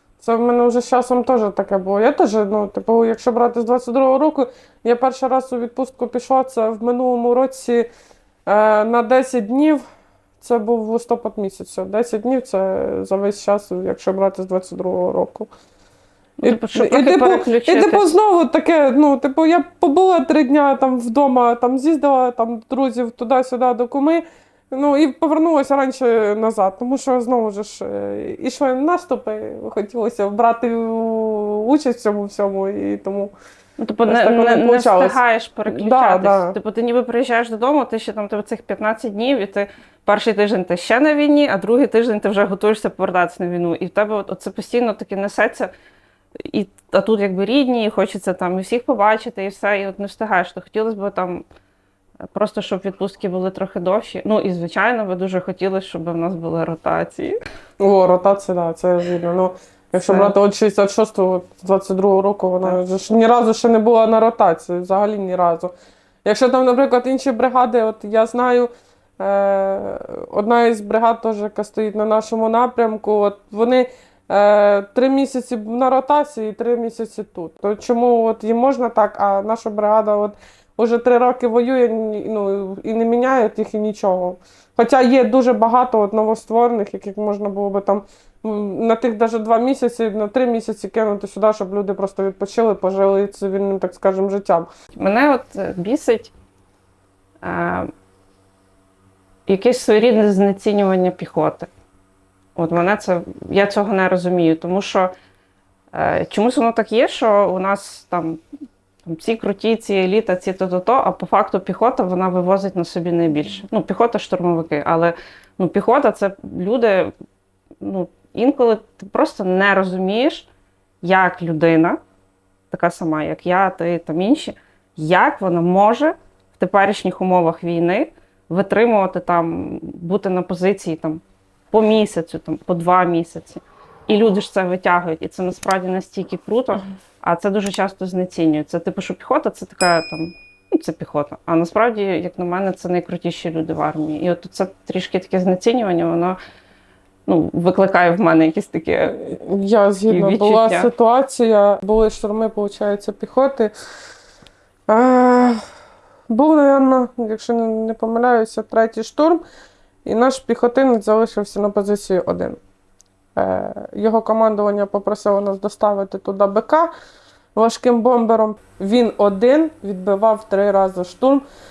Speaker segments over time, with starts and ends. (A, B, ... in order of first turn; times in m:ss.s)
0:00.2-0:07.9 A
0:08.4-0:09.8 A
0:10.4-0:15.5 A
0:16.4-0:18.1 B
0:16.4-0:33.3 A
0:33.8-0:45.7 B
0:34.0-0:36.6 A
0:46.4-0:51.4 B
0:52.3-0:57.4 B
0:57.8-1:05.7 A
1:00.0-1:00.3 B
1:06.2-1:34.7 A
1:35.0-1:36.3 B
1:37.4-1:37.9 B
1:39.5-1:41.7 B
1:42.6-1:45.1 B
1:45.9-1:48.4 B
1:49.0-1:57.1 B
1:57.8-2:00.5 B
2:01.0-2:02.0 B
2:02.7-2:26.4 B
2:27.3-2:29.2 B
2:29.0-2:33.7 A
2:30.1-2:30.9 B
2:34.9-2:35.6 A
2:36.3-2:39.4 A
2:40.0-2:42.6 A
2:43.4-2:46.9 A
2:47.5-2:51.4 A